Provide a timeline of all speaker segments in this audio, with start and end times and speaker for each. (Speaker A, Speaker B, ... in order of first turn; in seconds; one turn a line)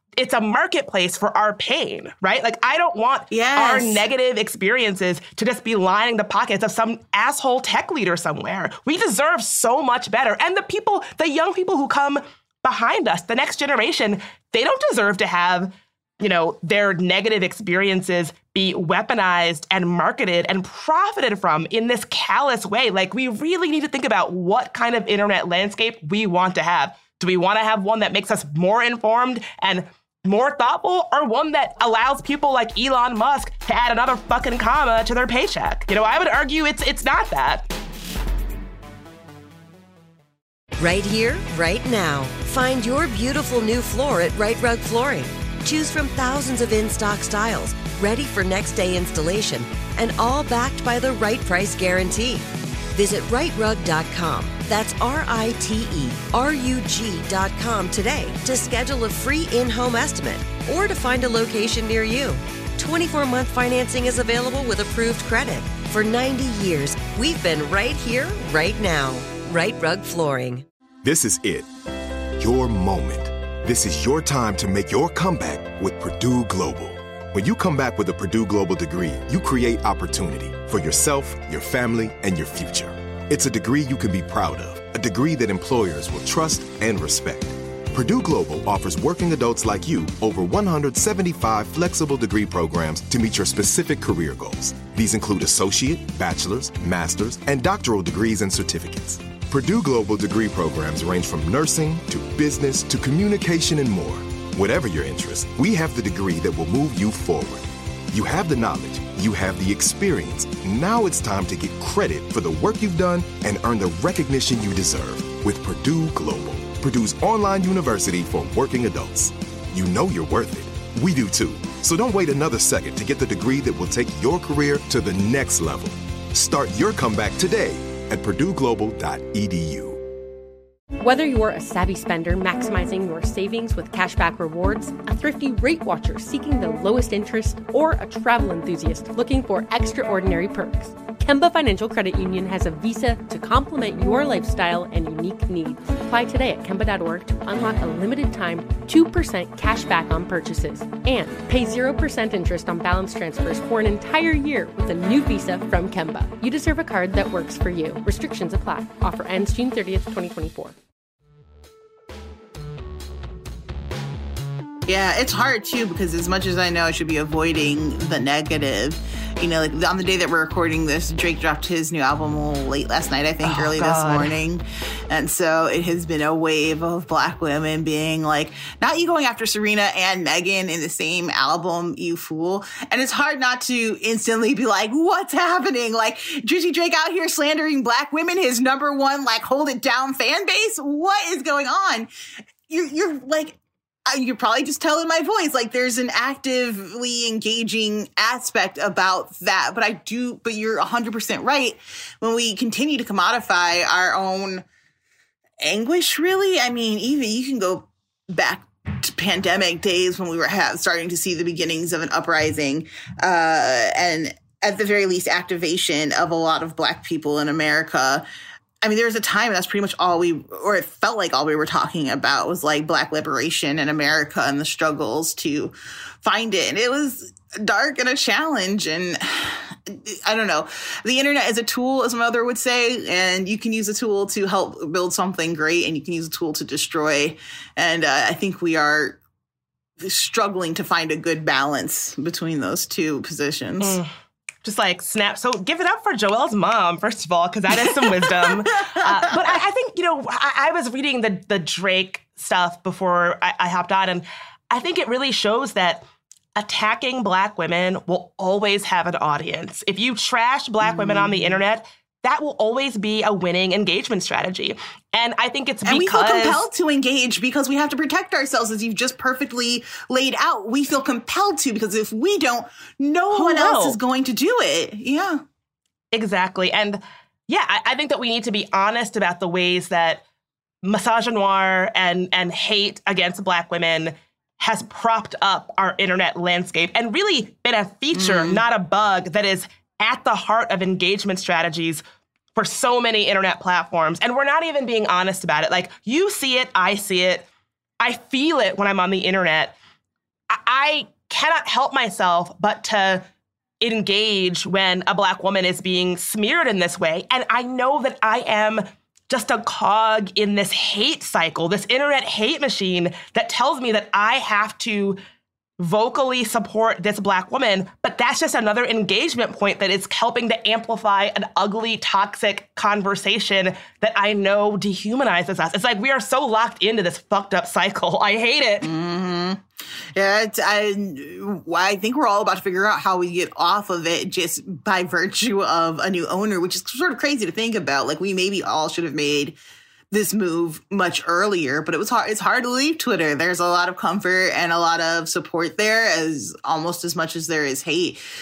Speaker A: 0.2-37.7
Speaker B: 3.3-4.0
Speaker C: 40.8-70.6
Speaker D: 71.0-71.7
Speaker D: 72.4-130.0
Speaker E: 131.0-160.7
Speaker B: 164.9-192.1
Speaker A: 173.4-174.4
Speaker B: 192.7-204.6
Speaker B: 205.6-218.2
Speaker B: 218.8-239.2
Speaker B: 240.0-244.0
Speaker A: 243.8-244.1
Speaker A: 244.6-256.0
Speaker B: 247.8-249.3
Speaker A: 256.6-266.6
Speaker B: 260.8-261.6
Speaker B: 265.9-275.4
Speaker A: 273.3-274.0
Speaker A: 276.1-280.2
Speaker A: 280.8-292.0
Speaker B: 288.1-288.6
Speaker A: 292.5-297.4
Speaker A: 298.0-299.7
Speaker A: 300.5-303.2
Speaker A: 303.8-315.2
Speaker A: 315.8-328.9
Speaker B: 328.8-329.6
Speaker B: 330.1-339.5
Speaker B: 340.1-348.2